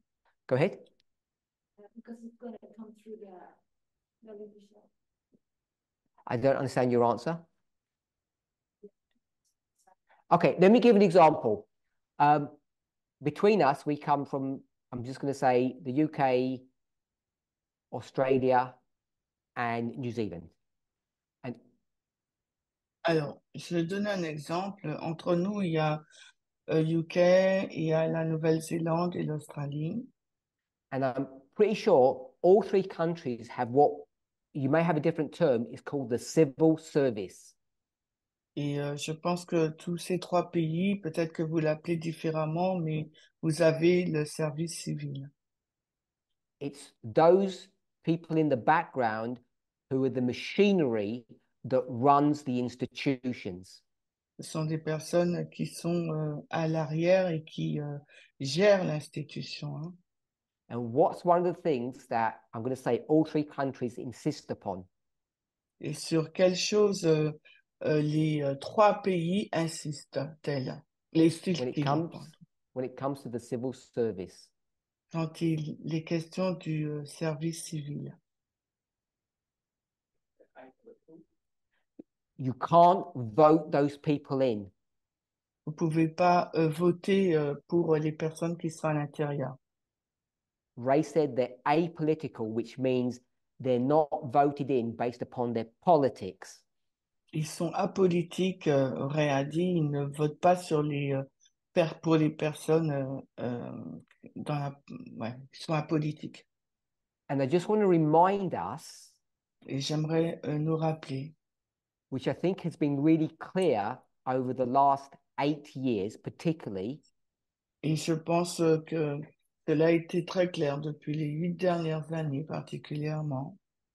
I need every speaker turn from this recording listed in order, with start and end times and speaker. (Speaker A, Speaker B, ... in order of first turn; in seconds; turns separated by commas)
Speaker A: 0.5-0.8, Speaker B: 1.8-3.6, Speaker B: 4.2-4.9, Speaker A: 6.3-7.5, Speaker A: 10.3-11.7, Speaker A: 12.2-12.6, Speaker A: 13.2-16.6, Speaker A: 17.9-18.8, Speaker A: 19.6-20.6, Speaker C: 23.0-26.0, Speaker C: 26.7-30.1, Speaker A: 30.9-37.5, Speaker C: 38.6-45.3, Speaker A: 46.6-53.8, Speaker C: 54.4-60.0, Speaker A: 60.7-64.9, Speaker C: 65.8-72.3, Speaker A: 71.6-74.5, Speaker C: 75.1-78.2, Speaker A: 82.4-84.7, Speaker C: 85.7-89.6, Speaker A: 90.8-96.6, Speaker C: 97.3-106.5, Speaker A: 107.3-109.2, Speaker C: 109.7-111.3, Speaker A: 112.1-117.0, Speaker C: 117.8-123.6